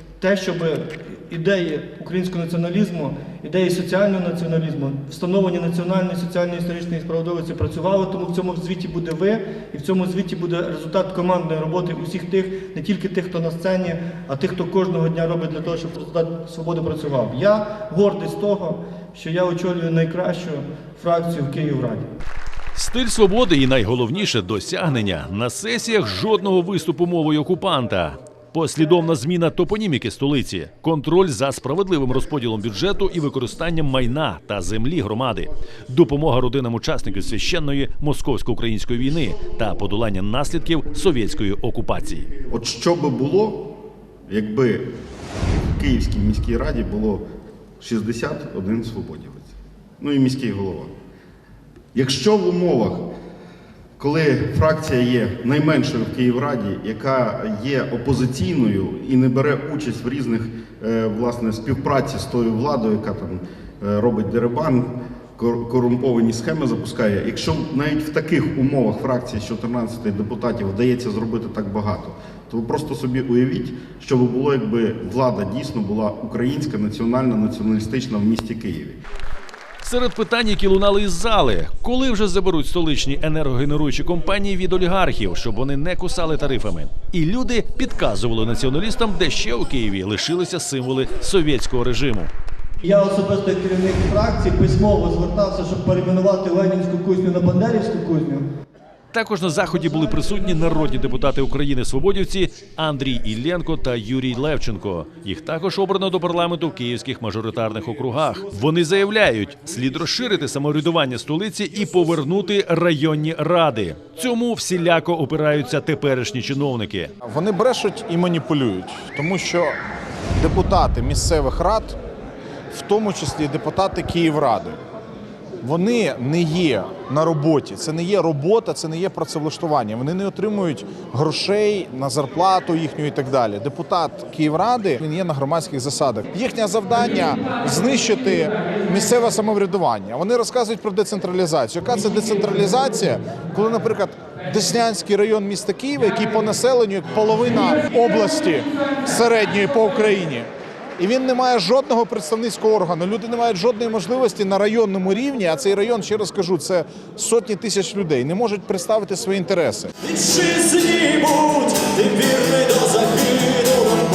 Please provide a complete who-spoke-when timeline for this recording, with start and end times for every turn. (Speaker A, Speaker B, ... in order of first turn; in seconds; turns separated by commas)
Speaker A: 0.2-22.1, Speaker B: 22.8-42.3, Speaker C: 42.5-43.7, Speaker C: 44.3-44.9, Speaker C: 45.7-47.2, Speaker C: 47.8-50.9, Speaker C: 51.9-53.1, Speaker C: 54.0-79.0, Speaker B: 79.8-92.3, Speaker A: 92.8-98.5, Speaker B: 99.1-117.1, Speaker D: 117.2-119.8, Speaker D: 120.4-122.0, Speaker D: 122.7-124.8, Speaker D: 125.6-159.9, Speaker B: 160.2-163.5